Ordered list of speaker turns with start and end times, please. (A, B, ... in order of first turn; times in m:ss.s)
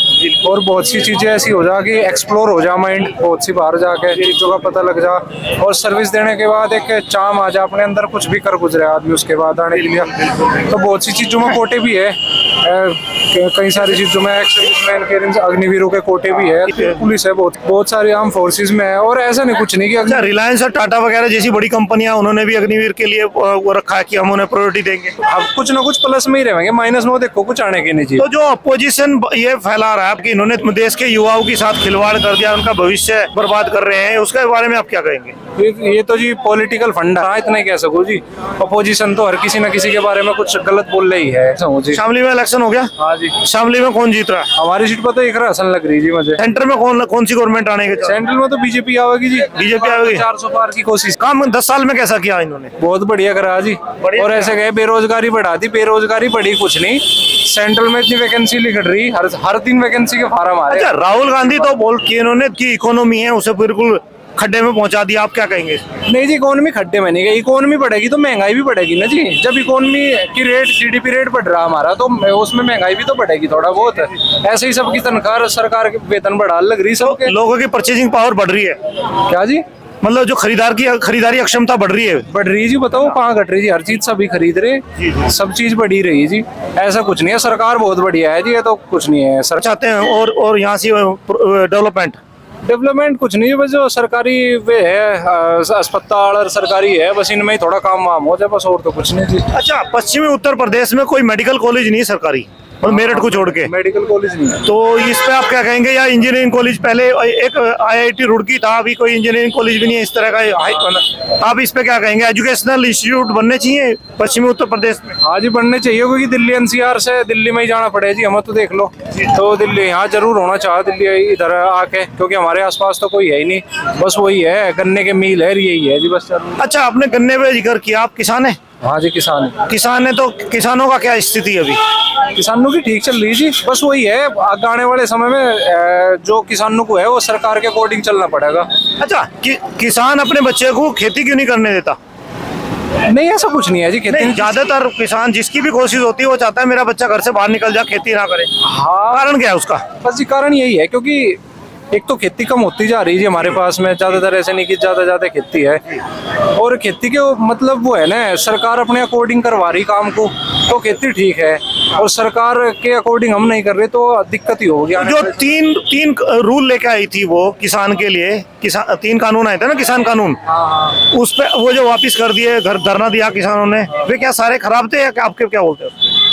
0:00.4-0:20.2 A
0:16.7-0:17.0 B
0:20.0-0:25.1 B
0:25.2-0:28.2 A
0:28.2-0:35.3 B
0:35.6-0:42.0 A
0:41.9-0:42.9 B
0:43.0-0:43.3 A
0:43.4-0:44.5 B
0:44.6-0:46.4 A
0:46.4-0:48.2 B
0:48.0-0:51.2 A
0:49.5-0:50.2 B
0:51.2-0:52.7 B
0:52.8-1:00.9 A
0:54.0-0:54.5 B
1:00.7-1:05.8 B
1:06.1-1:17.3 A
1:17.0-1:18.8 B
1:19.3-1:19.6 A
1:20.0-1:22.3 B
1:22.3-1:29.6 A
1:29.6-1:32.2 B
1:32.6-1:39.5 A
1:39.5-1:43.7 B
1:42.8-1:44.6 A
1:44.6-1:55.2 B
1:55.2-2:06.6 A
2:06.6-2:08.6 B
2:08.8-2:09.6 A
2:09.7-2:11.8 B
2:12.3-2:18.7 A
2:19.0-2:22.0 B
2:23.1-2:24.7 A
2:24.1-2:28.5 B
2:28.6-2:29.2 A
2:29.1-2:29.8 B
2:30.0-2:31.4 A
2:31.9-2:35.8 A
2:36.6-2:45.4 A
2:45.0-2:50.4 B
2:50.5-2:51.0 A
2:51.1-2:56.1 B